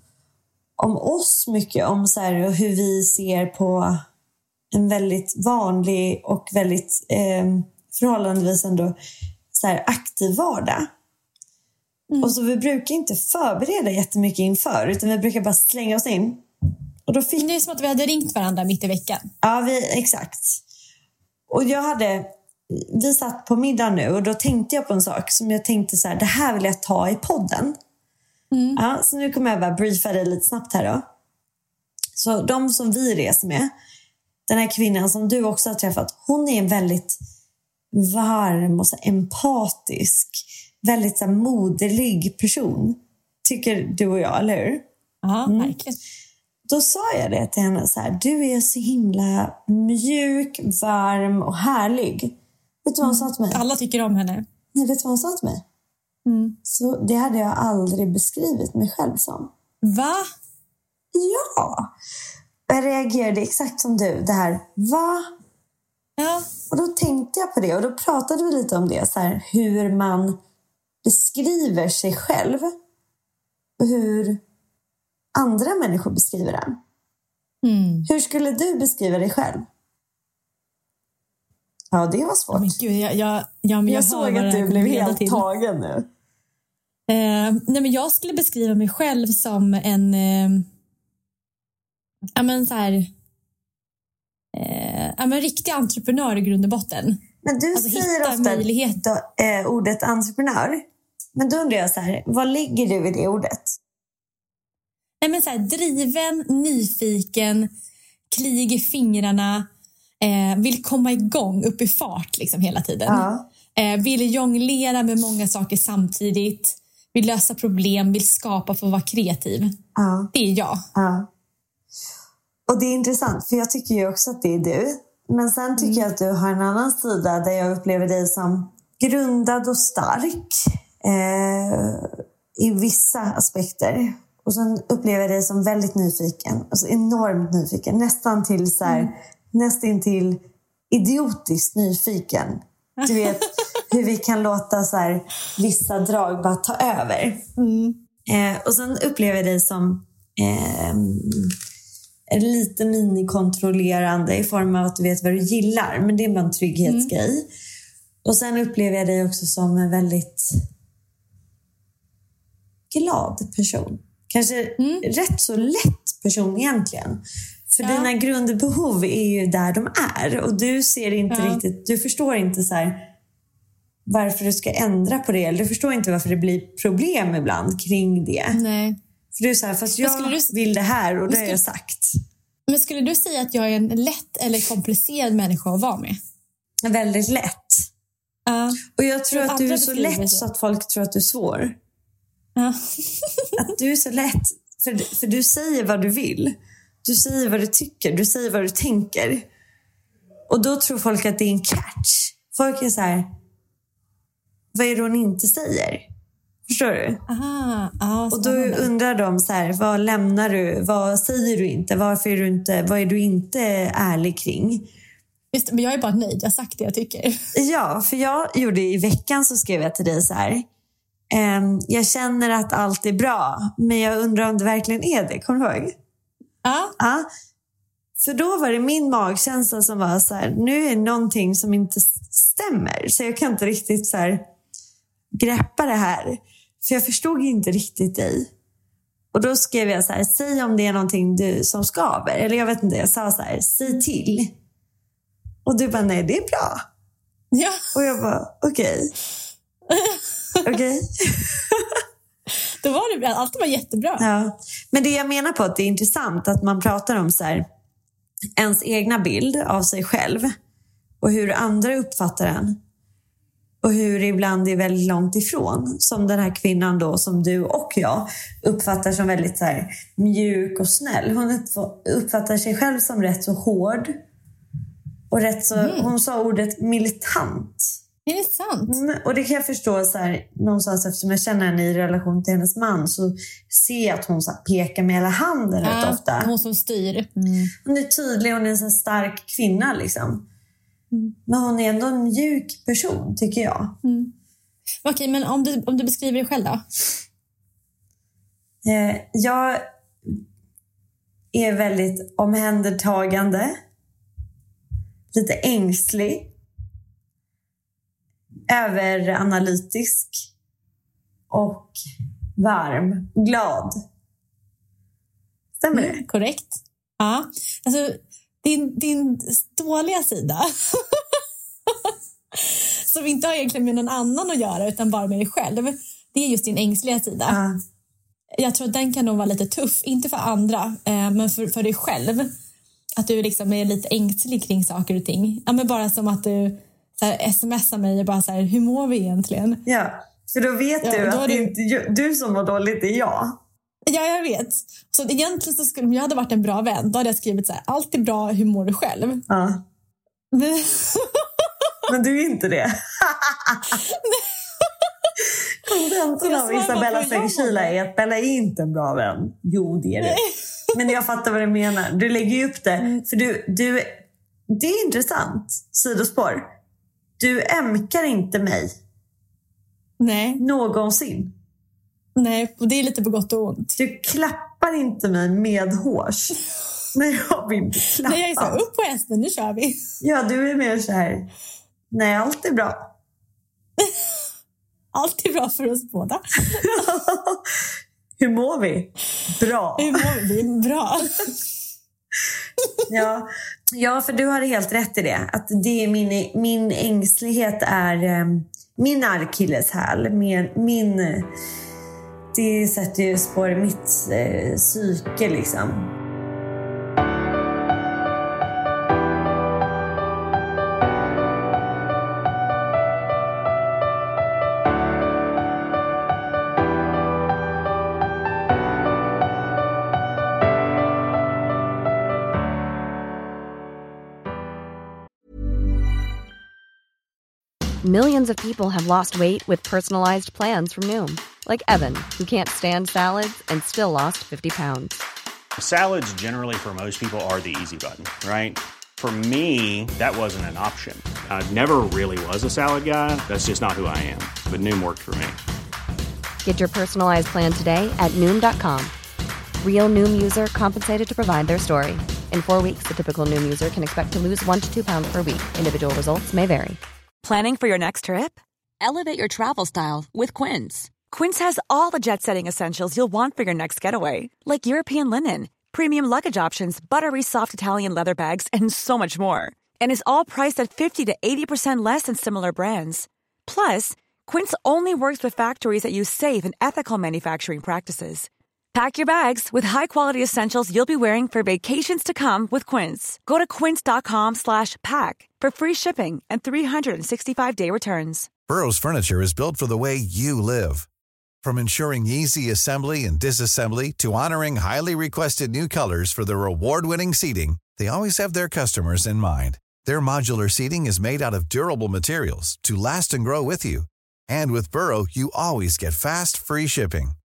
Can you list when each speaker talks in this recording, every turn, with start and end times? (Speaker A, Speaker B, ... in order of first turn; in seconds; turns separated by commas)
Speaker A: 0.8-4.0, Speaker A: 4.7-9.0, Speaker A: 9.5-10.9, Speaker B: 12.1-12.4, Speaker A: 12.2-16.4, Speaker A: 17.1-17.5, Speaker B: 17.4-19.3, Speaker A: 19.4-20.6, Speaker A: 21.5-27.8, Speaker B: 28.5-28.8, Speaker A: 28.8-31.1, Speaker A: 32.2-33.7, Speaker A: 34.5-37.2, Speaker A: 37.9-44.9, Speaker B: 45.2-46.0, Speaker A: 45.5-45.8, Speaker A: 46.7-53.6, Speaker B: 53.0-54.5, Speaker A: 54.7-55.6, Speaker B: 56.3-56.6, Speaker A: 56.6-59.5, Speaker B: 59.8-60.2, Speaker A: 61.1-61.9, Speaker A: 62.7-65.3, Speaker B: 66.2-66.5, Speaker A: 66.7-70.4, Speaker A: 71.0-72.8, Speaker A: 73.8-74.4, Speaker A: 75.3-76.8, Speaker B: 77.6-78.1, Speaker A: 78.1-79.7, Speaker A: 81.9-82.8, Speaker B: 82.5-85.5, Speaker A: 83.9-86.1, Speaker B: 87.1-90.7, Speaker B: 92.4-93.1, Speaker B: 94.5-97.2, Speaker A: 97.4-100.8, Speaker B: 97.8-99.0, Speaker A: 101.3-103.8, Speaker B: 105.2-107.7, Speaker B: 108.3-109.7, Speaker B: 110.2-119.8, Speaker A: 113.1-113.5, Speaker A: 120.0-120.3, Speaker B: 120.3-120.8, Speaker A: 121.0-121.3, Speaker A: 122.7-147.4, Speaker B: 125.8-126.1, Speaker B: 143.0-143.5, Speaker B: 147.6-148.0, Speaker A: 148.3-151.5, Speaker A: 152.3-157.5, Speaker B: 156.9-157.1, Speaker A: 158.2-160.5, Speaker A: 162.9-173.1, Speaker B: 164.8-165.1, Speaker B: 167.8-168.1, Speaker B: 171.3-171.6, Speaker A: 174.1-178.6, Speaker B: 178.5-179.0, Speaker A: 179.3-182.2, Speaker B: 180.0-180.5, Speaker B: 181.3-181.6, Speaker B: 182.7-186.2, Speaker A: 186.8-187.9, Speaker B: 188.5-190.4, Speaker A: 188.9-191.8, Speaker B: 192.6-193.5, Speaker A: 193.6-199.5, Speaker A: 200.5-203.3, Speaker A: 204.7-206.1, Speaker A: 206.7-207.2, Speaker B: 207.3-208.9, Speaker A: 208.3-214.9, Speaker B: 215.5-217.4, Speaker A: 217.6-220.7, Speaker A: 221.3-226.0, Speaker B: 226.6-226.9, Speaker A: 227.0-227.3, Speaker A: 228.2-234.5, Speaker A: 235.3-238.5, Speaker A: 239.3-244.5, Speaker A: 245.7-246.8, Speaker B: 247.5-247.9, Speaker A: 247.9-249.1, Speaker B: 249.9-250.7, Speaker A: 250.7-252.0, Speaker B: 252.8-254.3, Speaker A: 254.2-257.7, Speaker A: 258.6-260.5, Speaker A: 261.2-262.8, Speaker A: 263.8-274.2, Speaker A: 275.3-278.0, Speaker B: 275.8-276.1, Speaker B: 278.3-279.0, Speaker A: 278.9-286.5, Speaker B: 285.8-287.7, Speaker A: 287.8-290.5, Speaker A: 291.5-294.0, Speaker B: 294.0-294.3, Speaker B: 295.1-296.8, Speaker A: 298.9-300.4, Speaker A: 301.5-303.8, Speaker A: 305.3-306.5, Speaker A: 308.7-310.5, Speaker A: 311.5-312.0, Speaker A: 312.6-314.0, Speaker A: 315.8-316.2, Speaker B: 315.9-321.4, Speaker B: 321.9-327.6, Speaker A: 327.5-327.8, Speaker B: 328.6-332.5, Speaker B: 333.2-339.8, Speaker A: 339.9-343.6, Speaker B: 341.0-341.7, Speaker B: 344.1-349.4, Speaker A: 349.5-349.8, Speaker B: 350.5-351.5, Speaker A: 352.1-354.0, Speaker B: 354.1-355.3, Speaker A: 355.9-360.4, Speaker B: 356.4-357.9, Speaker B: 360.2-360.9, Speaker A: 360.9-366.7, Speaker A: 367.4-368.9, Speaker B: 370.2-370.6, Speaker A: 370.6-371.6, Speaker B: 372.4-373.9, Speaker A: 374.0-376.6, Speaker A: 377.1-378.8, Speaker B: 378.2-380.0, Speaker A: 380.2-381.5, Speaker A: 382.1-383.1, Speaker B: 385.1-387.0, Speaker A: 386.9-387.7, Speaker A: 388.4-390.3, Speaker B: 390.0-391.5, Speaker A: 393.1-401.5, Speaker A: 402.5-406.1, Speaker C: 428.0-435.2, Speaker D: 435.8-445.6, Speaker C: 446.6-449.1, Speaker C: 449.8-457.0, Speaker E: 457.4-488.5, Speaker F: 488.7-491.1, Speaker F: 491.6-507.4